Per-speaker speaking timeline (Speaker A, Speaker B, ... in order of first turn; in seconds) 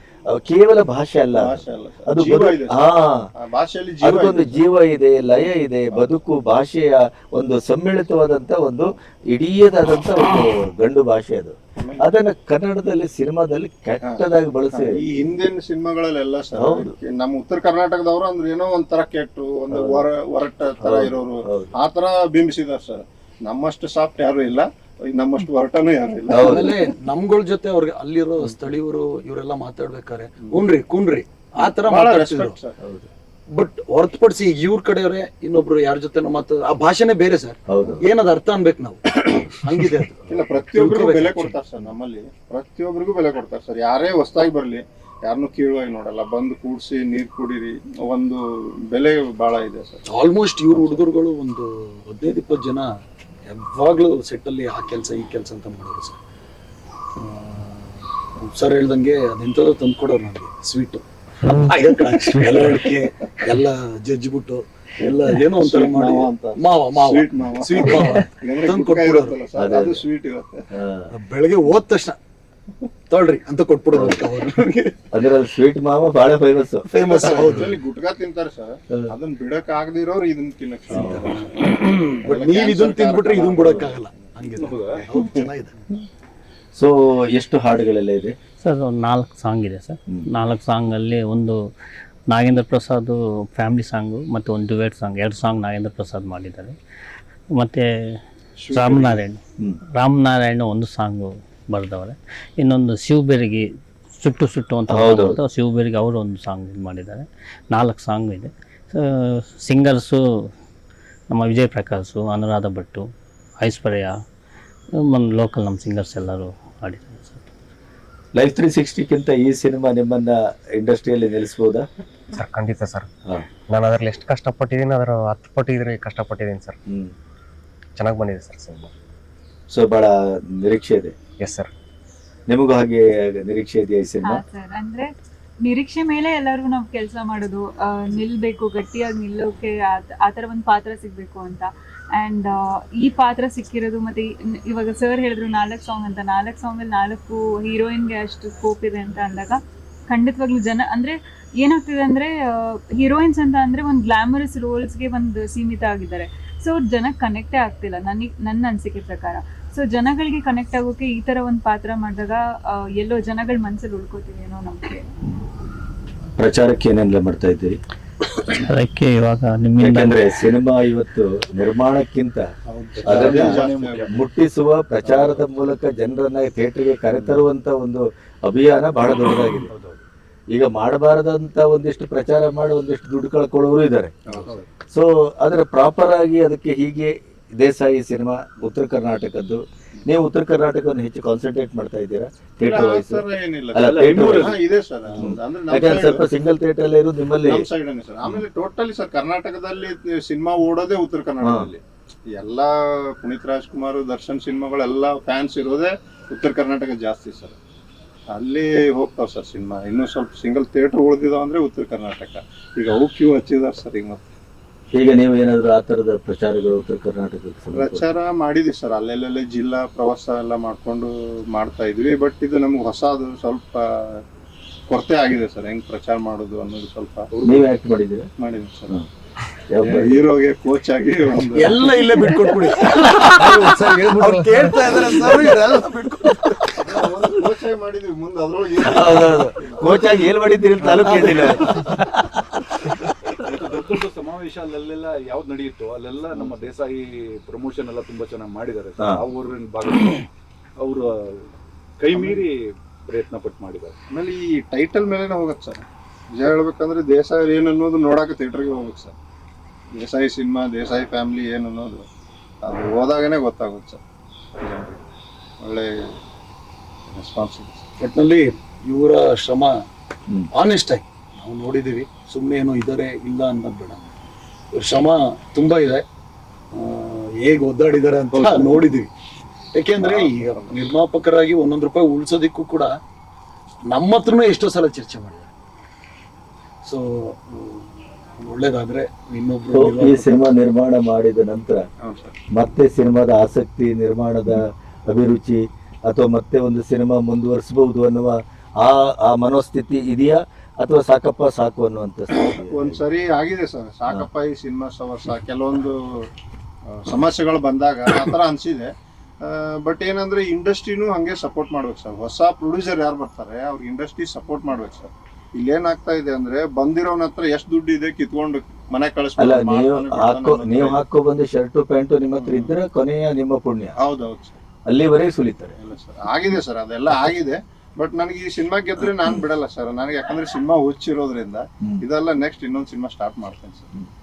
Speaker A: 0.3-3.2, 4.0-15.0, 16.6-16.9, 19.7-20.0, 20.8-21.7, 26.3-26.8, 32.8-33.1, 37.7-38.0, 69.5-70.1, 70.7-71.1, 73.9-74.2, 75.1-76.9, 80.9-81.3, 86.8-88.3, 104.9-105.4, 118.3-121.8, 129.7-131.2, 132.5-134.4, 166.4-167.8, 169.8-172.5, 173.0-179.7, 180.5-184.1, 184.9-194.6, 195.2-197.6, 201.4-201.7, 214.9-218.1, 227.4-228.3, 229.7-230.2, 238.8-242.3, 249.0-249.2, 289.7-291.9, 292.5-303.0, 319.4-323.9, 324.9-325.8
Speaker B: 1.3-2.9, 3.4-4.6, 11.8-12.0, 14.7-26.8, 31.6-32.8, 40.3-50.0, 65.0-70.6, 77.0-84.3, 98.6-99.2, 172.7-174.1, 175.0-175.4, 184.3-184.6, 192.6-196.2, 197.4-201.8, 202.3-207.6, 208.3-214.2, 217.7-224.2, 224.9-227.3, 228.4-229.0, 229.8-231.9, 236.8-239.9, 240.8-241.5, 252.1-252.4, 254.1-259.1, 260.0-262.0, 262.6-264.0, 264.6-265.0, 265.6-266.1, 267.1-267.9, 278.3-278.8, 280.0-280.8, 292.0-292.4, 302.4-306.3, 306.9-308.9, 309.4-321.0, 322.4-322.8, 324.0-324.6, 325.8-333.9
Speaker C: 26.4-32.6, 33.5-41.6, 50.1-52.9, 53.5-56.2, 57.2-69.3, 71.1-72.2, 73.1-74.8, 76.9-77.7, 81.0-85.8, 231.5-236.8, 241.1-241.4, 268.0-269.8, 270.5-274.1, 274.7-276.0, 276.7-279.1, 279.7-282.9, 283.9-285.5, 286.9-290.5
Speaker D: 84.6-85.0, 173.1-174.0, 193.9-194.5, 227.3-227.6, 243.5-250.3, 250.8-253.9
Speaker E: 88.6-91.6, 92.3-96.8, 97.5-98.2, 98.7-99.4, 100.0-110.5, 111.3-113.1, 113.6-114.1, 115.0-117.5, 168.4-170.2
Speaker F: 122.3-123.1, 123.7-126.8, 128.0-128.9, 131.4-131.7, 173.7-174.0, 193.9-194.3, 246.3-246.7
Speaker G: 134.2-135.1, 135.6-165.0